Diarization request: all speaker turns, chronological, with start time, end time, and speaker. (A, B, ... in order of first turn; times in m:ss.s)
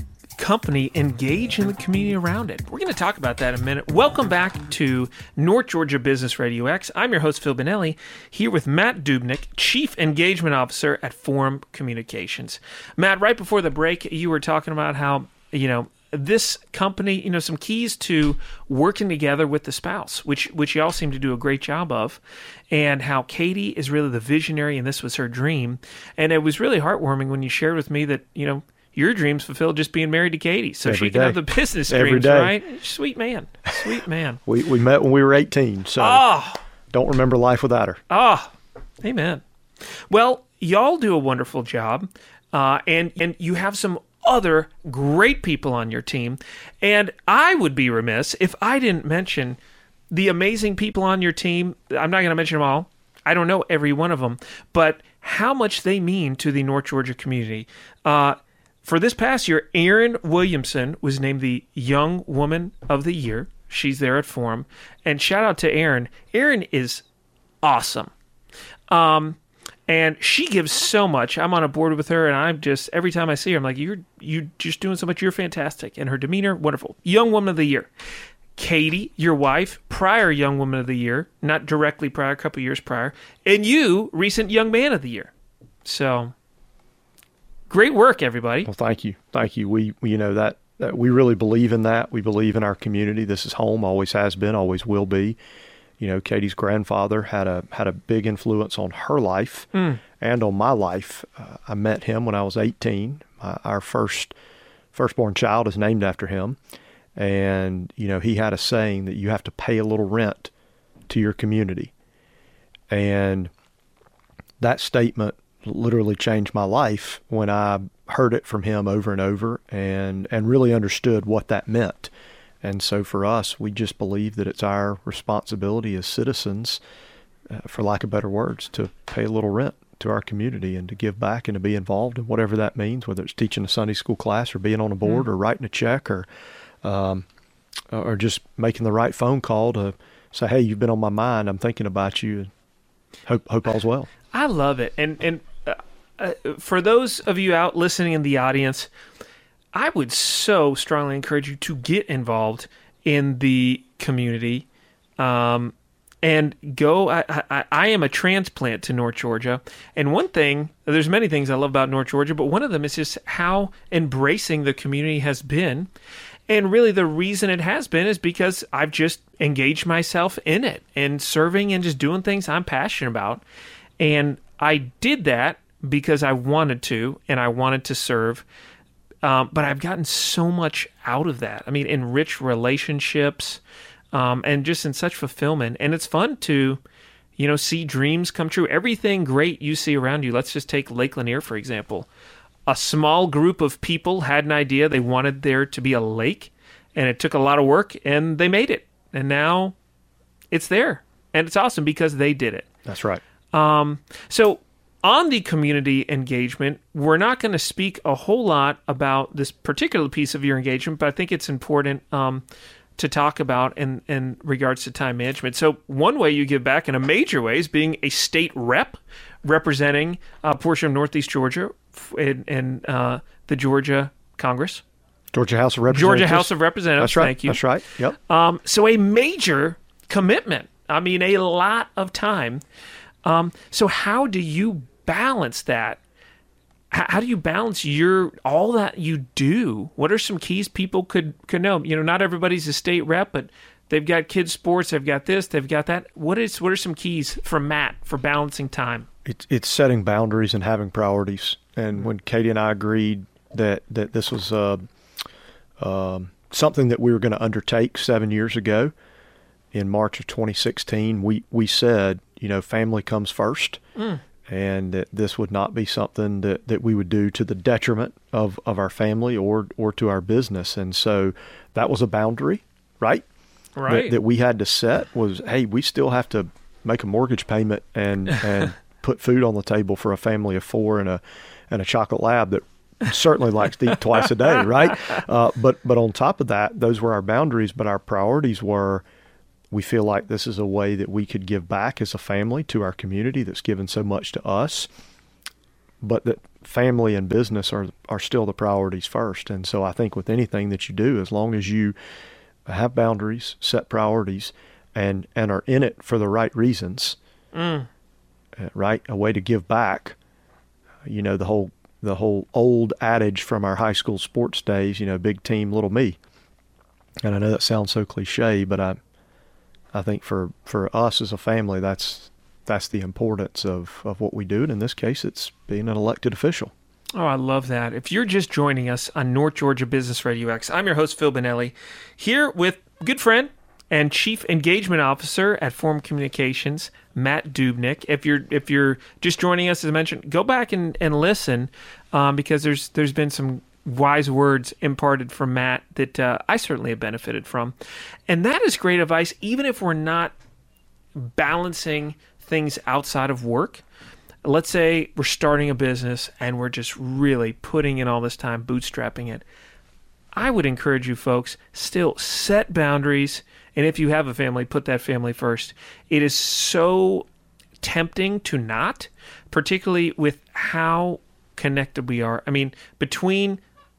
0:00.4-0:34.4 A
0:30.8-0:32.6 B
0:34.5-0:36.3 B
0:36.0-0:36.6 A
0:36.9-0:38.0 B
0:38.1-0:49.6 A
0:50.1-1:07.0 A
1:07.6-1:08.1 A
1:08.9-1:09.4 A
1:09.9-1:17.9 A
1:18.6-1:25.3 A
1:25.8-1:26.3 A
1:27.7-1:28.7 A
1:28.6-1:35.4 B
1:36.0-1:44.4 B
1:39.8-1:40.0 A
1:44.9-1:46.6 B
1:47.2-1:50.5 B
1:51.1-1:51.9 B
1:52.9-1:53.5 B
1:54.6-2:06.8 B
2:07.5-2:16.3 B
2:16.8-2:17.2 B
2:17.9-2:22.5 B
2:23.3-2:24.1 B
2:24.3-2:28.9 A
2:29.7-2:34.7 A
2:35.2-2:45.9 A
2:46.5-2:53.4 A
2:54.0-2:58.4 A
2:59.2-3:03.6 A
3:04.1-3:06.8 A
3:07.4-3:12.1 A
3:12.7-3:19.8 A
3:20.5-3:22.7 A
3:22.9-3:23.2 B
3:23.5-3:32.4 A
3:33.0-3:44.8 A
3:45.3-3:48.2 B
3:45.9-3:47.6 A
3:48.2-3:52.6 A
3:53.2-3:56.0 A
3:56.9-4:09.1 A
4:09.2-4:14.9 B
4:15.8-4:18.9 B
4:19.7-4:23.8 B
4:24.0-4:24.2 A
4:24.4-4:33.2 B
4:33.8-4:34.2 A
4:33.9-4:49.0 B
4:49.7-4:54.9 B
4:56.0-5:02.0 B
5:02.7-5:07.2 B
5:07.5-5:07.9 A
5:08.6-5:10.2 B
5:11.0-5:16.2 B
5:17.2-5:19.0 B
5:19.9-5:26.7 B
5:27.2-5:47.8 A
5:48.3-5:50.3 A
5:51.2-5:53.8 A
5:54.4-5:59.4 A
6:00.4-6:07.3 A
6:07.8-6:13.6 A